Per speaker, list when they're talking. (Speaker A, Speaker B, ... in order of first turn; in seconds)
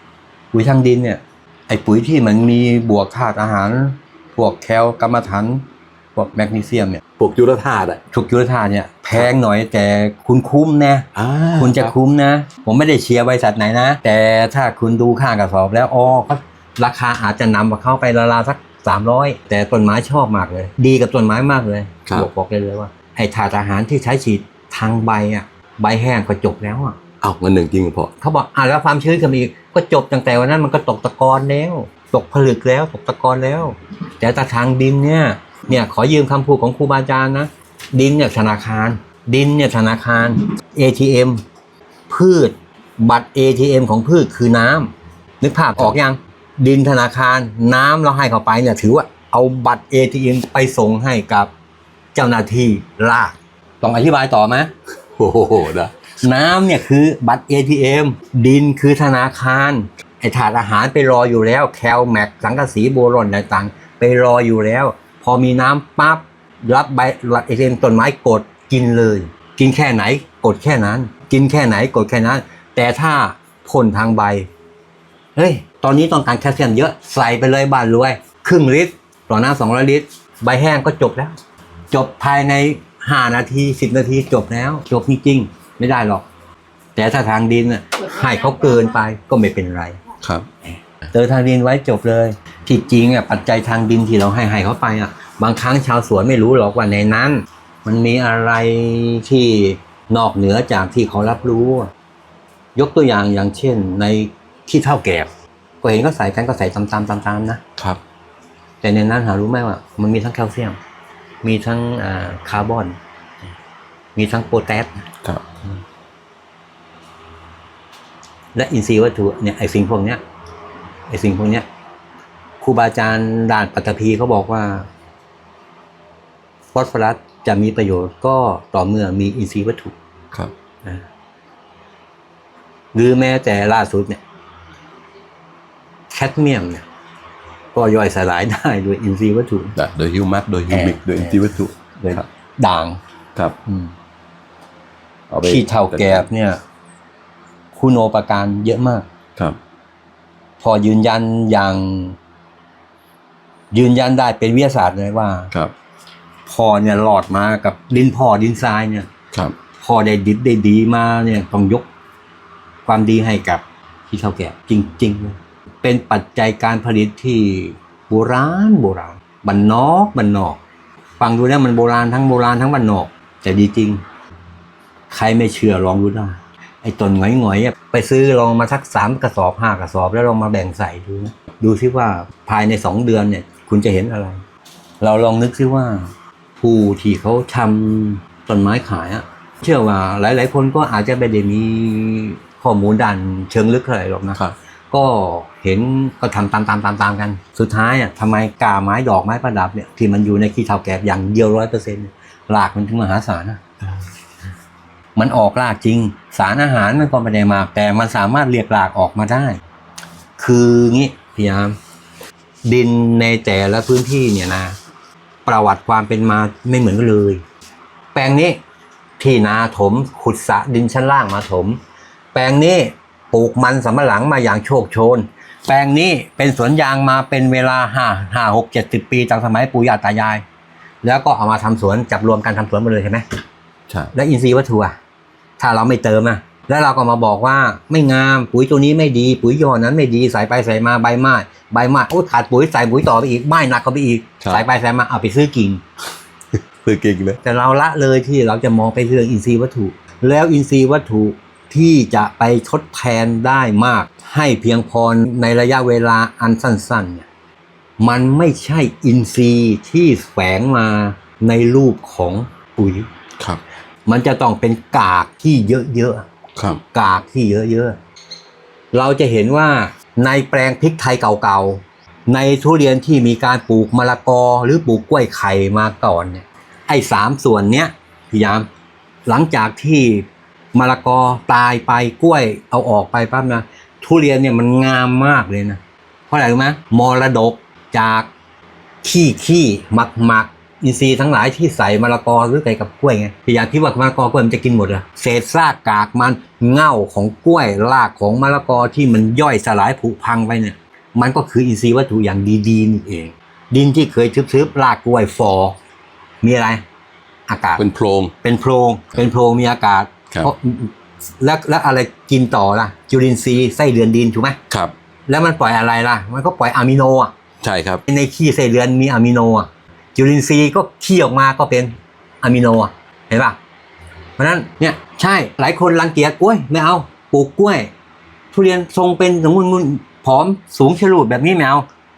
Speaker A: 0.5-5.6, 6.2-7.0, 8.1-27.0, 28.2-41.4, 42.1-51.5, 52.1-54.7, 56.2-74.5, 75.4-81.4, 81.9-86.2, 87.0-90.0, 91.1-101.9, 102.8-105.3, 105.8-107.6, 108.8-110.8, 111.4-113.0, 114.2-115.0, 118.5-120.2, 121.1-121.7, 122.6-124.9, 126.7-129.9, 132.9-134.2, 136.1-136.8, 137.7-139.8, 140.7-141.4, 142.0-143.0, 145.4-146.6, 147.7-149.1, 150.6-152.2, 153.7-155.5, 156.5-159.1, 159.8-161.9, 162.9-170.6, 171.2-174.0, 175.1-184.4, 185.0-203.7, 205.2-209.6, 210.4-211.8, 212.7-214.8, 215.5-217.4, 218.1-218.6, 219.2-221.8, 222.3-230.4, 231.0-233.2, 234.1-235.0, 235.6-245.8, 247.4-257.3, 258.0-263.1, 264.1-266.3, 266.9-268.0, 268.9-278.7, 279.3-288.3, 289.0-305.8, 306.4-306.8, 307.5-307.9, 308.4-314.6, 315.3-317.3, 318.1-323.6, 324.4-327.9, 328.5-331.9
Speaker B: 7.2-8.0, 11.2-11.9, 27.2-28.1, 55.2-55.9, 90.2-90.5, 139.8-142.2, 145.3-146.3, 246.8-247.4, 266.6-266.8, 307.8-308.3, 317.6-318.0